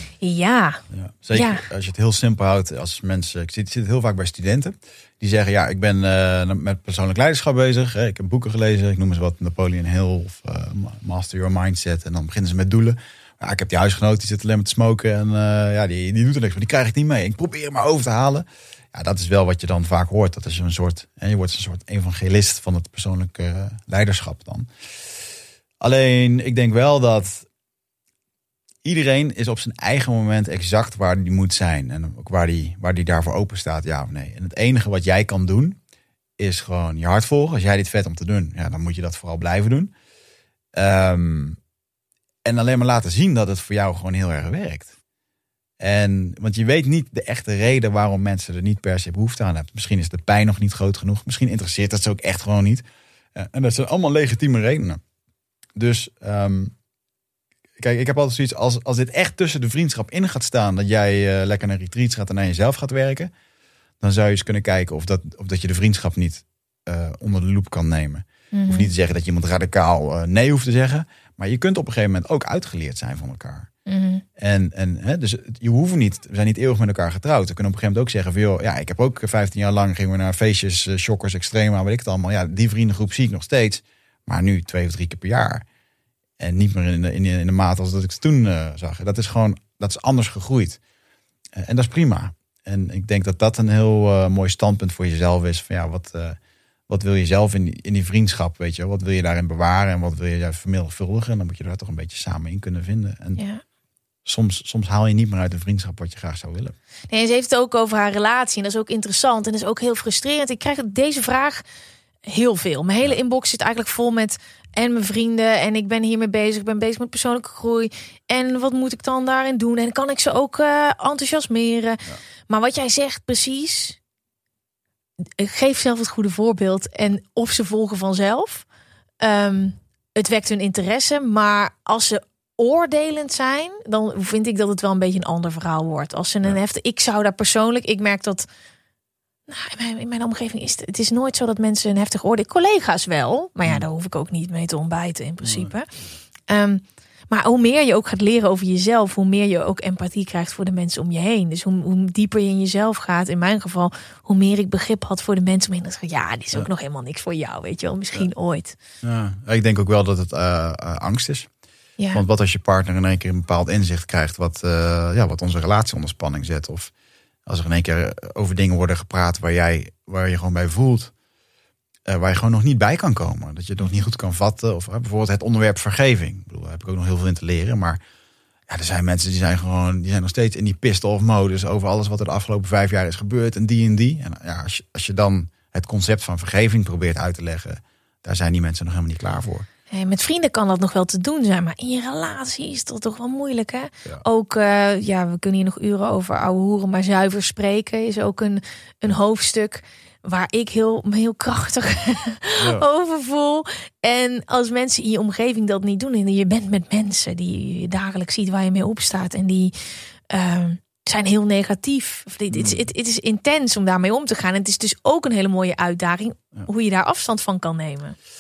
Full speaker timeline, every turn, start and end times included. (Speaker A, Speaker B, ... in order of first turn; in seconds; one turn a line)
Speaker A: 0.2-0.8
Speaker B: 0.9-24.7
Speaker A: 1.3-1.6
Speaker B: 25.8-27.5
Speaker B: 28.8-35.8
Speaker B: 36.4-39.9
Speaker B: 40.7-41.6
Speaker B: 42.5-44.9
Speaker B: 45.8-55.0
Speaker B: 55.8-56.7
Speaker B: 57.8-63.3
Speaker B: 64.0-73.7
Speaker A: 68.5-68.9
Speaker A: 73.9-74.2
Speaker B: 74.4-85.7
Speaker B: 86.4-90.8
Speaker B: 91.5-96.4
Speaker B: 96.9-103.4
Speaker A: 103.4-103.6
Speaker B: 104.2-106.8
Speaker A: 107.1-111.6
Speaker A: 112.3-124.0
Speaker A: 125.4-128.7
Speaker A: 129.2-138.5
Speaker A: 139.5-145.9
Speaker B: 145.4-145.7
Speaker A: 146.5-158.8
Speaker B: 159.0-161.5
Speaker B: 162.1-166.9
Speaker B: 167.5-171.1
Speaker B: 172.1-178.0
Speaker B: 178.7-189.7
Speaker A: 189.9-209.8
Speaker B: 202.6-202.8
Speaker A: 210.3-218.2
Speaker B: 212.5-212.8